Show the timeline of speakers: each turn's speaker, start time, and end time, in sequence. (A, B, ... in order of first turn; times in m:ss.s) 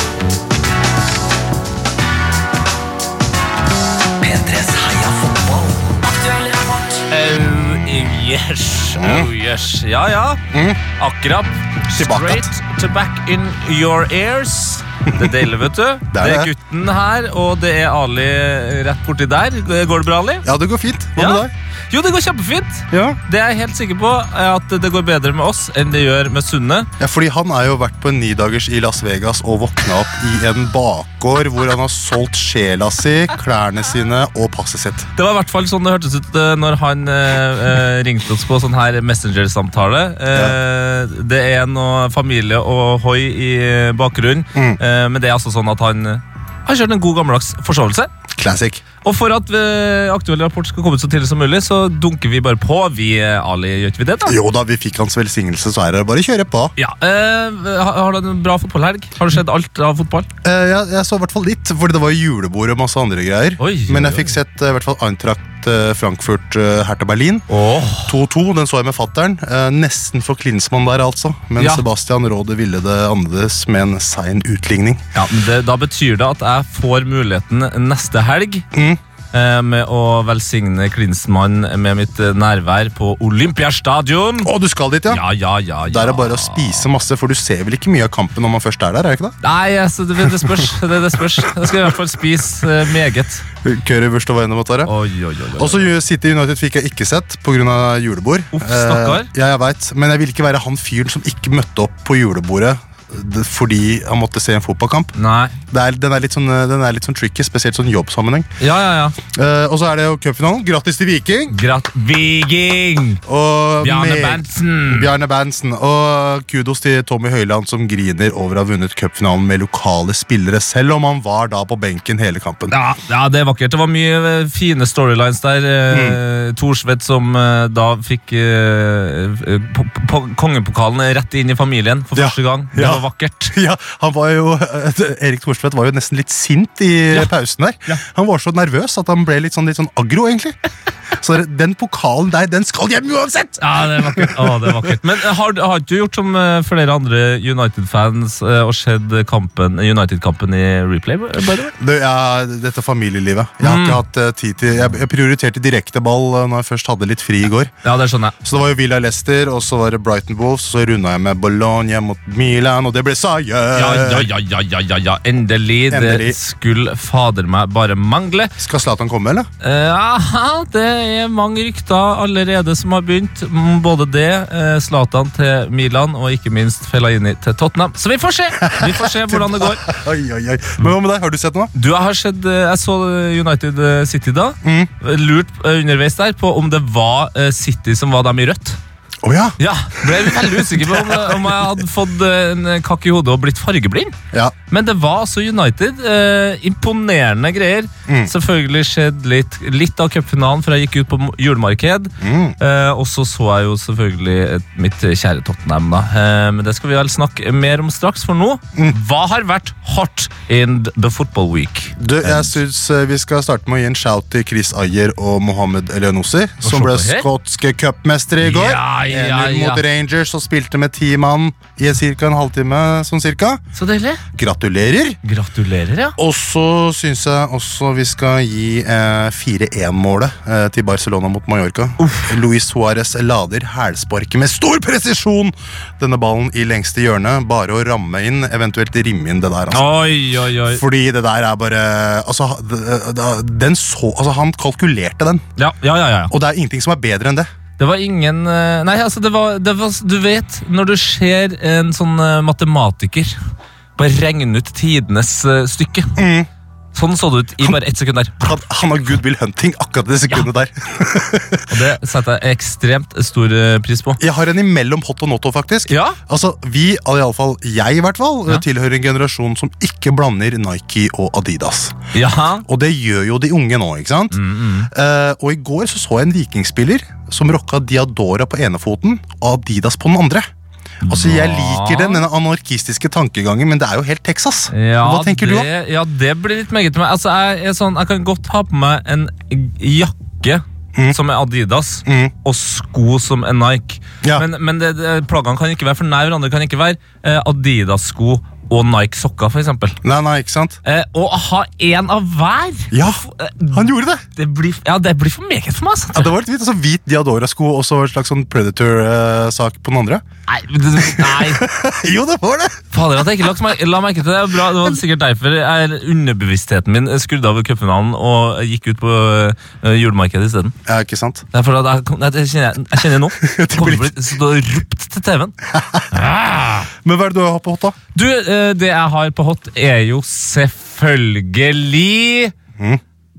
0:04.2-0:10.4 A
0:08.9-0:09.3 B
0:10.5-0:10.8 B
0:11.0-0:20.4 A
0:11.9-0:12.5 B
0:16.1-0:16.5 B
0:20.4-0:21.5 B
0:21.2-0:26.9 A
0:22.9-0:23.2 B
0:27.0-0:35.1 B
0:35.1-0:48.1 A
0:40.3-0:40.6 B
0:44.5-0:44.8 B
0:48.4-0:48.8 B
0:49.0-0:54.4 A
0:54.2-0:56.7 B
0:56.8-1:00.3 A
1:00.4-1:07.4 B
1:03.6-1:04.4 A
1:07.5-1:08.1 A
1:08.0-1:15.0 B
1:11.6-1:11.8 A
1:15.1-1:18.6 A
1:18.7-1:19.0 B
1:19.3-1:24.5 A
1:24.4-1:25.2 B
1:25.1-1:26.9 A
1:25.9-1:29.4 B
1:29.4-1:33.4 A
1:30.2-1:30.7 B
1:33.6-1:34.9 B
1:34.8-1:35.9 A
1:35.6-1:45.1 B
1:38.5-1:39.3 A
1:45.1-1:45.6 A
1:45.7-1:48.5 B
1:48.6-1:49.2 A
1:49.3-1:51.6 B
1:51.5-1:53.2 A
1:53.2-2:02.7 B
1:53.8-1:55.1 A
2:02.7-2:13.5 A
2:05.9-2:06.2 B
2:12.1-2:20.6 B
2:21.2-2:25.0 B
2:23.6-2:31.7 A
2:31.7-2:37.7 B
2:33.6-2:34.0 A
2:37.8-2:38.3 A
2:38.4-2:44.3 B
2:43.7-2:48.5 A
2:45.9-2:46.4 B
2:48.6-2:49.5 B
2:49.6-2:59.8 A
2:58.6-3:01.7 B
3:01.7-3:08.8 A
3:04.6-3:04.9 B
3:09.2-3:11.7 B
3:09.6-3:14.1 A
3:14.7-3:32.6 A
3:18.1-3:18.3 B
3:22.2-3:22.6 B
3:32.0-3:43.6 B
3:36.6-3:37.3 A
3:38.4-3:39.8 A
3:43.7-3:44.2 A
3:44.3-3:45.2 B
3:45.2-3:46.2 A
3:46.2-3:59.9 B
3:52.0-3:52.4 A
3:59.7-4:00.8 A
4:00.6-4:05.4 B
4:05.6-4:06.3 A
4:06.3-4:07.4 B
4:07.8-4:13.3 A
4:14.0-4:16.2 A
4:16.2-4:16.5 B
4:16.9-4:18.6 A
4:18.4-4:21.8 B
4:21.7-4:24.2 A
4:24.2-4:31.9 B
4:25.9-4:26.2 A
4:32.1-4:32.6 A
4:32.6-4:34.4 B
4:34.3-4:34.9 A
4:34.9-4:40.5 B
4:41.0-4:42.2 A
4:41.0-4:45.7 B
4:44.7-5:00.0 A
4:52.0-4:52.3 B
5:00.0-5:00.8 B
5:00.8-5:06.3 A
5:02.9-5:04.2 B
5:06.1-5:10.2 B
5:10.5-5:11.6 A
5:11.0-5:12.8 B
5:12.9-5:20.7 A
5:14.6-5:14.9 B
5:20.8-5:21.4 B
5:21.5-5:25.5 A
5:23.4-5:24.2 B
5:25.7-5:26.1 B
5:26.1-5:26.9 A
5:27.0-5:28.0 B
5:28.1-5:32.5 A